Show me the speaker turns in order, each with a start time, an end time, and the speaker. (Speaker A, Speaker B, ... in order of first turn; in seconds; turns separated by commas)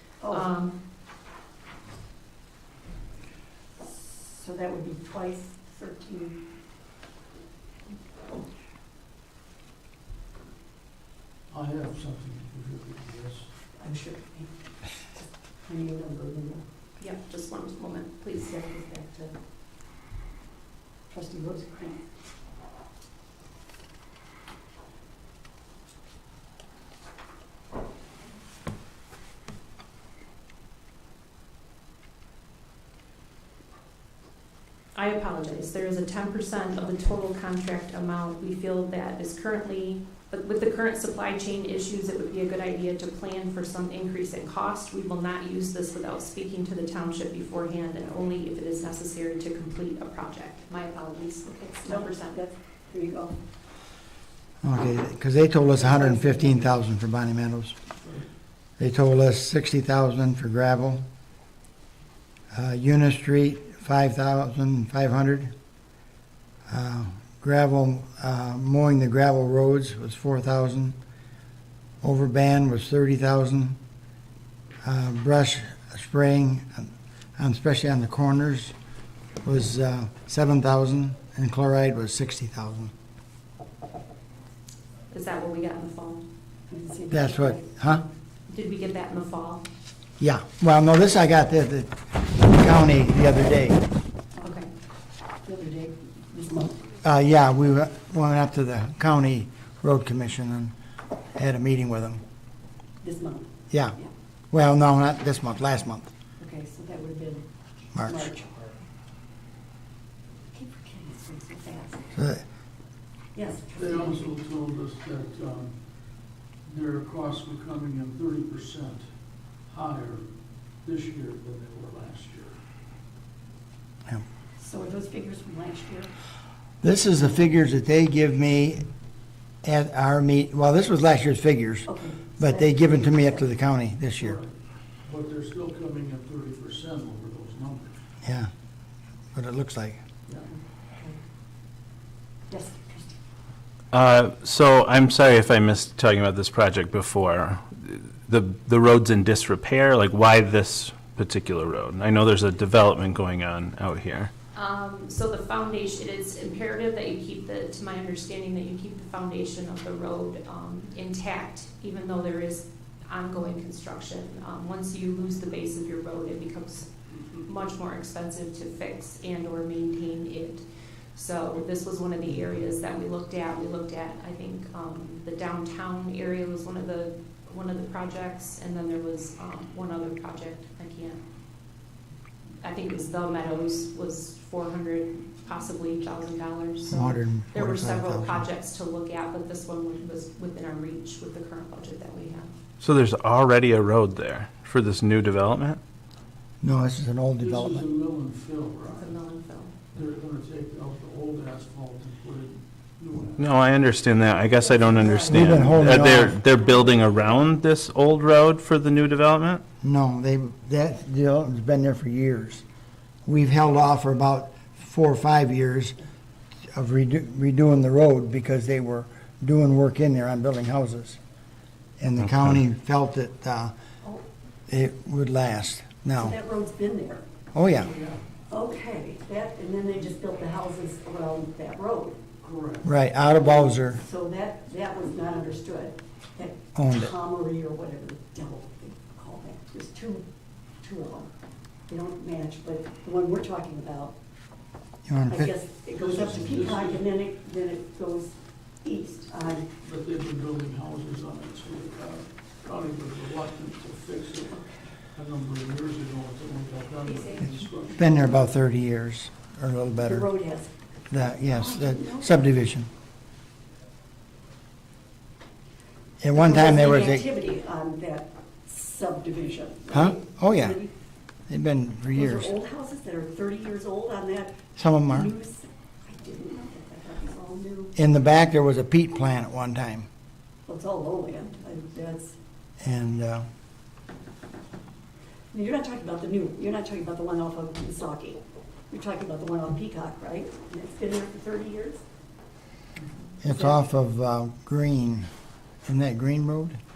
Speaker A: 0.2-0.5, Speaker B: 0.3-0.8, Speaker A: 3.8-6.4, Speaker C: 11.5-13.5, Speaker A: 13.8-16.6, Speaker B: 17.0-18.6, Speaker A: 18.5-19.3, Speaker A: 21.1-22.0, Speaker B: 34.9-52.4, Speaker A: 51.8-53.4, Speaker D: 54.6-57.8, Speaker A: 55.7-56.6, Speaker D: 58.8-61.0, Speaker D: 62.5-65.5, Speaker D: 66.7-71.0, Speaker D: 72.0-73.8, Speaker D: 74.8-78.7, Speaker D: 79.4-82.9, Speaker B: 85.1-86.2, Speaker A: 86.7-87.8, Speaker D: 87.1-88.0, Speaker B: 88.5-89.7, Speaker D: 90.2-93.8, Speaker A: 94.3-94.6, Speaker B: 94.4-94.7, Speaker A: 95.4-96.9, Speaker D: 97.0-100.7, Speaker D: 101.3-102.2, Speaker A: 103.0-104.1, Speaker D: 103.7-104.0, Speaker D: 104.5-106.1, Speaker A: 106.4-107.4, Speaker D: 107.9-108.3, Speaker A: 108.0-108.8, Speaker A: 110.5-112.1, Speaker D: 112.1-112.4, Speaker A: 113.3-114.3, Speaker C: 113.7-115.7, Speaker C: 116.7-119.1, Speaker C: 119.7-120.3, Speaker C: 120.8-122.6, Speaker A: 124.6-126.1, Speaker D: 126.8-128.9, Speaker D: 129.6-134.4, Speaker A: 131.9-133.5, Speaker C: 134.2-138.0, Speaker D: 138.2-138.5, Speaker D: 139.3-140.0, Speaker C: 140.3-140.5, Speaker A: 142.5-143.2, Speaker E: 143.9-154.3, Speaker B: 154.5-181.2, Speaker B: 182.6-192.5, Speaker D: 186.9-188.4, Speaker E: 192.8-195.8, Speaker D: 196.6-197.8, Speaker C: 197.4-199.1, Speaker B: 198.9-199.7, Speaker C: 199.9-203.5, Speaker E: 203.4-209.6, Speaker A: 204.6-205.9, Speaker D: 205.2-206.4, Speaker D: 209.8-212.6, Speaker D: 213.2-216.0, Speaker D: 216.7-221.2, Speaker D: 222.0-223.7, Speaker D: 224.7-226.3, Speaker A: 226.2-227.2, Speaker D: 227.5-227.9, Speaker C: 227.9-228.2, Speaker A: 228.5-232.3, Speaker C: 232.4-232.9, Speaker D: 232.8-234.0, Speaker A: 233.2-240.2, Speaker D: 236.7-237.1, Speaker A: 240.8-241.3, Speaker A: 241.9-244.1, Speaker D: 245.1-245.5, Speaker A: 245.3-249.7, Speaker C: 245.9-247.1, Speaker C: 249.8-254.5, Speaker A: 254.5-254.8, Speaker C: 255.1-258.4, Speaker B: 257.0-257.7, Speaker D: 257.9-260.3, Speaker A: 260.0-260.7, Speaker D: 261.1-262.9, Speaker A: 261.5-262.4, Speaker D: 266.2-267.3, Speaker A: 266.3-270.9, Speaker D: 269.9-270.8, Speaker D: 271.5-272.5, Speaker A: 272.1-277.9, Speaker D: 274.7-275.3, Speaker D: 277.9-280.1, Speaker A: 280.7-282.4, Speaker D: 282.8-283.5, Speaker A: 285.5-292.0, Speaker D: 293.4-295.3, Speaker A: 293.4-293.8, Speaker D: 295.9-296.8